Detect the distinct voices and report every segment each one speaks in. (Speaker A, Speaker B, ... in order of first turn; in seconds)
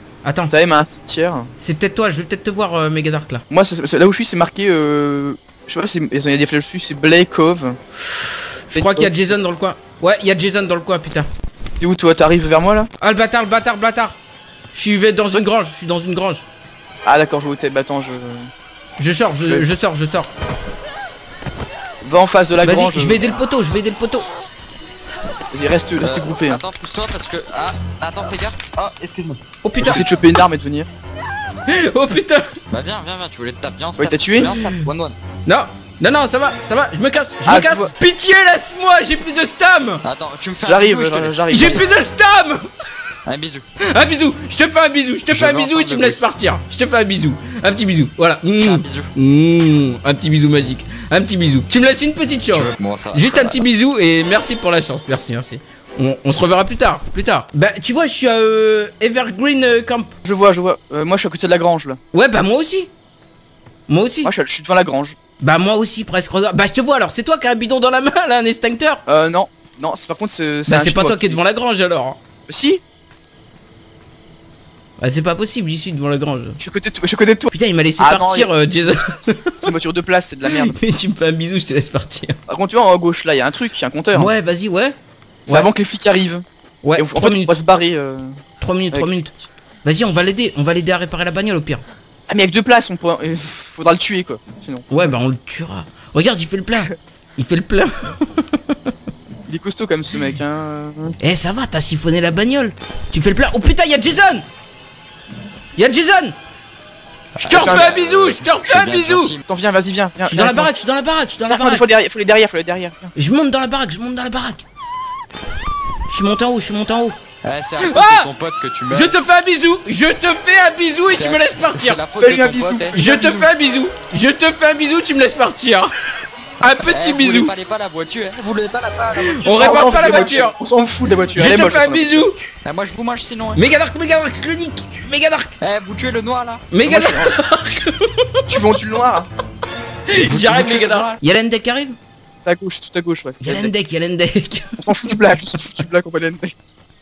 Speaker A: 0.2-0.5, 1.6-3.4, 8.0-11.3, 13.0-14.2, 14.7-16.4, 19.0-20.3, 22.6-24.3, 29.6-30.1, 31.7-32.5, 35.5-40.0, 41.5-42.6, 43.8-60.1, 62.1-62.9, 63.9-64.3, 65.4-69.0, 70.7-72.2, 75.0-76.6, 77.5-79.5, 80.5-82.4, 84.1-85.0, 86.8-87.5, 88.6-89.3, 89.8-91.8, 94.9-98.8, 101.2-104.5, 105.8-106.3, 107.4-109.3, 110.2-111.9, 113.2-114.6, 116.1-117.2, 117.8-118.3, 118.9-122.0, 122.9-125.9, 126.6-127.5, 129.2-130.6, 131.3-132.4, 133.6-135.5, 136.7-138.5, 140.1-142.0, 143.4-144.8
Speaker B: 0.5-1.5, 3.5-7.8, 8.7-9.1, 11.8-12.9, 17.1-18.5, 22.0-23.4, 25.5-26.6, 29.8-30.9, 34.0-34.5, 37.5-37.9, 40.6-41.9, 60.2-62.0, 64.2-65.2, 69.1-71.4, 72.5-72.8, 76.6-80.8, 82.5-84.3, 85.5-86.4, 87.0-88.4, 88.9-89.4, 92.3-95.2, 99.5-101.2, 107.4-108.0, 109.5-110.7, 111.5-113.1, 122.2-123.5, 129.6-132.3, 136.8-137.3, 138.5-139.3, 142.4-143.7, 144.8-146.6
Speaker C: 26.0-29.4, 32.7-35.2, 40.0-41.9, 43.3-43.7, 45.3-46.2, 48.6-49.1, 52.5-53.7, 107.5-109.4, 117.4-119.2, 121.1-123.0, 126.8-130.4, 132.6-133.6, 135.6-136.7, 140.3-141.2